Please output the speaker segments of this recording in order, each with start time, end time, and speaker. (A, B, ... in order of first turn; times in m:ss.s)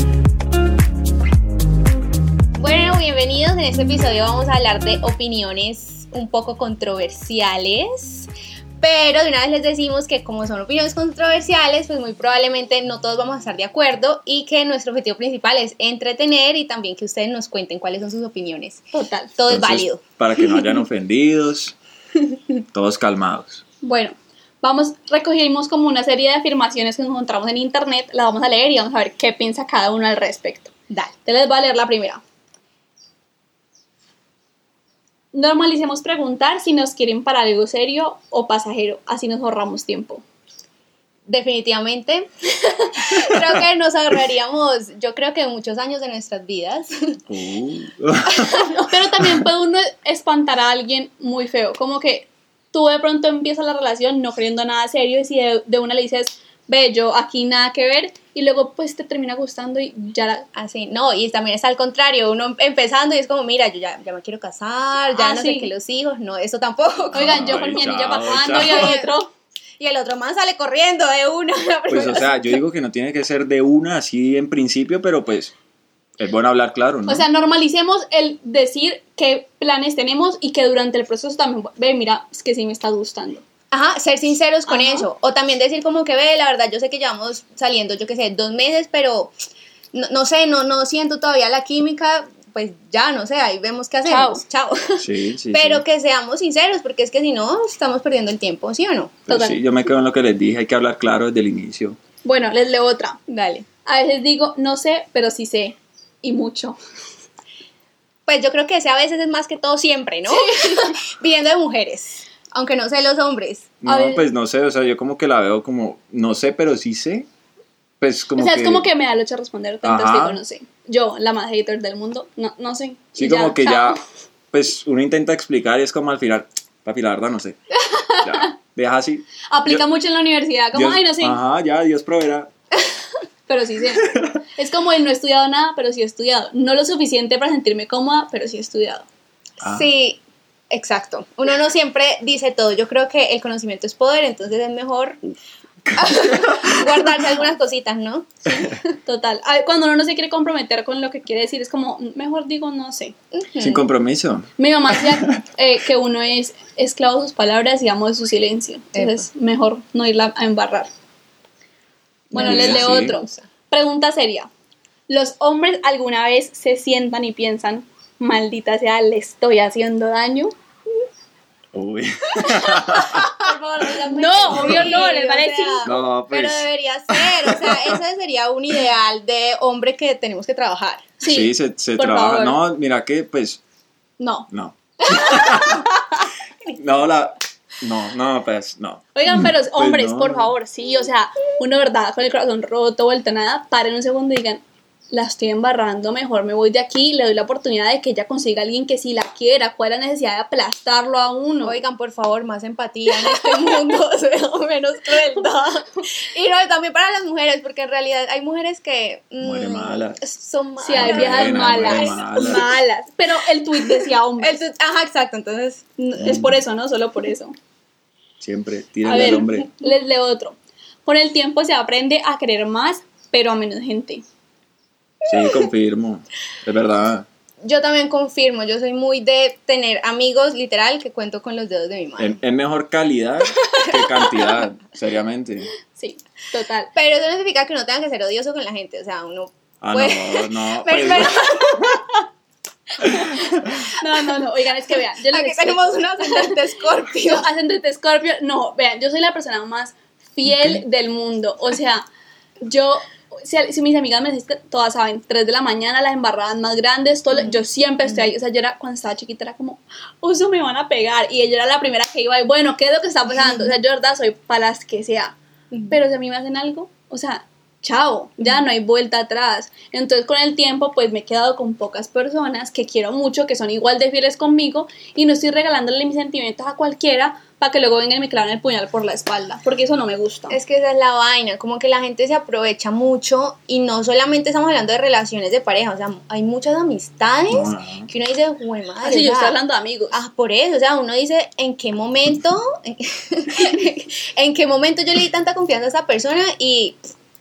0:02.6-0:08.3 A
0:08.8-0:18.8 A
0:18.9-0:19.3 B
0:19.4-0:20.0 A
0:19.5-0:21.8 C
0:22.7-0:23.6 C
0:23.8-0:30.7 B
0:31.2-0:32.2 B
0:35.3-0:40.2 B
0:41.3-0:47.2 A
0:47.3-0:48.7 C
0:48.3-0:48.9 A
0:48.8-1:00.4 B
1:00.5-1:07.6 A
1:05.1-1:05.7 B
1:07.1-1:09.0 C
1:07.1-1:09.3 B
1:08.2-1:09.1 A
1:09.8-1:12.6 A
1:11.9-1:15.5 C
1:16.2-1:17.2 C
1:17.0-1:23.4 B
1:23.7-1:29.3 A
1:24.7-1:25.1 B
1:29.9-1:39.2 A
1:34.0-1:34.4 B
1:35.0-1:35.8 C
1:39.3-1:42.0 C
1:39.3-1:39.6 B
1:42.2-1:43.2 B
1:43.3-1:43.6 A
1:43.8-1:46.8 B
1:48.3-1:53.7 A
1:50.3-1:50.9 B
1:53.8-1:57.3 C
1:53.8-1:54.2 B
1:58.0-1:58.9 C
1:58.4-2:04.0 B
1:59.8-2:00.4 C
2:03.2-2:04.0 C
2:04.5-2:07.6 C
2:07.9-2:08.5 B
2:08.2-2:09.8 C
2:09.5-2:11.4 B
2:10.7-2:12.5 C
2:13.5-2:19.0 B
2:14.1-2:14.4 C
2:19.6-2:20.2 A
2:20.7-2:25.2 A
2:25.8-2:27.3 C
2:26.0-2:28.3 A
2:28.5-2:33.1 B
2:33.3-2:33.9 A
2:33.6-2:35.4 C
2:34.6-2:40.9 B
2:38.9-2:39.3 A
2:42.3-2:43.2 C
2:42.3-2:43.4 A
2:42.3-2:44.5 B
2:45.1-2:50.5 B
2:51.7-2:53.4 C
2:52.9-3:01.1 A
2:53.8-2:55.9 B
2:54.4-2:55.0 C
2:55.8-2:58.0 C
3:01.2-3:02.6 B
3:01.2-3:03.6 C
3:04.2-3:04.5 B
3:04.5-3:06.0 C
3:06.7-3:10.5 C
3:09.1-3:21.8 B
3:21.6-3:32.7 A
3:29.4-3:30.2 C
3:30.8-3:34.6 B
3:30.9-3:32.7 C
3:33.8-3:35.8 A
3:36.0-3:37.5 B
3:36.2-3:36.5 C
3:38.4-3:39.7 C
3:39.0-3:44.2 B
3:39.1-3:39.5 A
3:45.2-3:47.3 C
3:45.3-3:45.7 A
3:47.6-3:52.4 A
3:52.2-3:55.7 C
3:53.5-3:54.6 A
3:55.9-3:56.9 B
3:56.9-4:02.2 A
3:59.8-4:02.0 C
4:03.3-4:03.8 A
4:03.9-4:12.1 B
4:05.2-4:07.5 A
4:10.4-4:10.8 C
4:12.6-4:25.4 B
4:17.3-4:18.3 A
4:23.3-4:23.8 A
4:25.7-4:26.0 A
4:25.9-4:40.6 B
4:40.5-4:49.6 A
4:47.5-4:48.1 C
4:49.0-4:50.2 B
4:50.1-4:57.0 A